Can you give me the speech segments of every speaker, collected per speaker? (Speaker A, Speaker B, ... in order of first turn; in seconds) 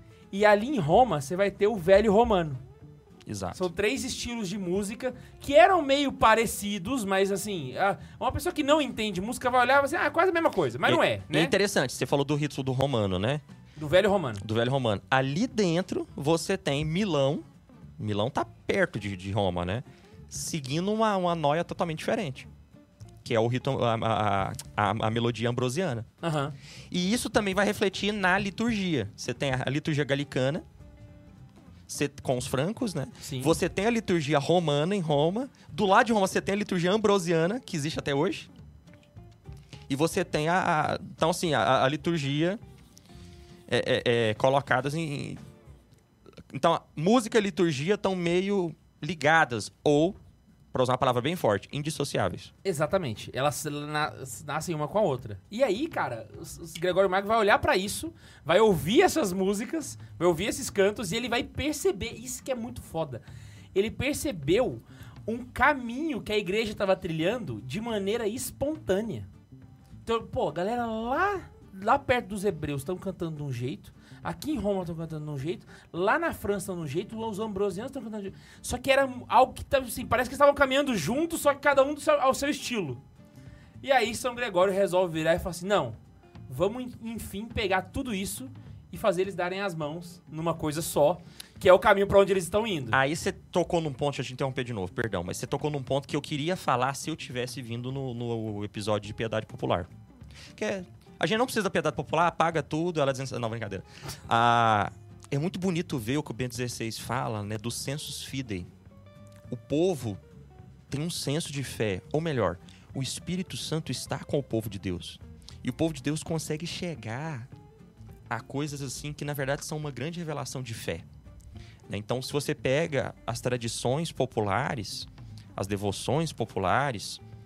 Speaker A: 0.3-2.6, 3.5-11.6, 13.8-14.4, 26.2-26.6, 33.2-33.6, 52.6-63.2, 63.7-69.3, 70.1-83.0, 83.8-86.0, 86.5-93.0
Speaker B: 3.3-3.7, 10.8-13.4, 14.4-17.4, 18.0-22.5, 23.2-26.1, 26.9-30.6, 31.9-38.5, 39.9-42.6, 43.7-45.4, 46.5-50.2, 50.7-52.5, 92.9-99.9, 100.5-108.7, 109.5-110.2, 110.9-117.5, 118.3-121.0, 121.9-127.2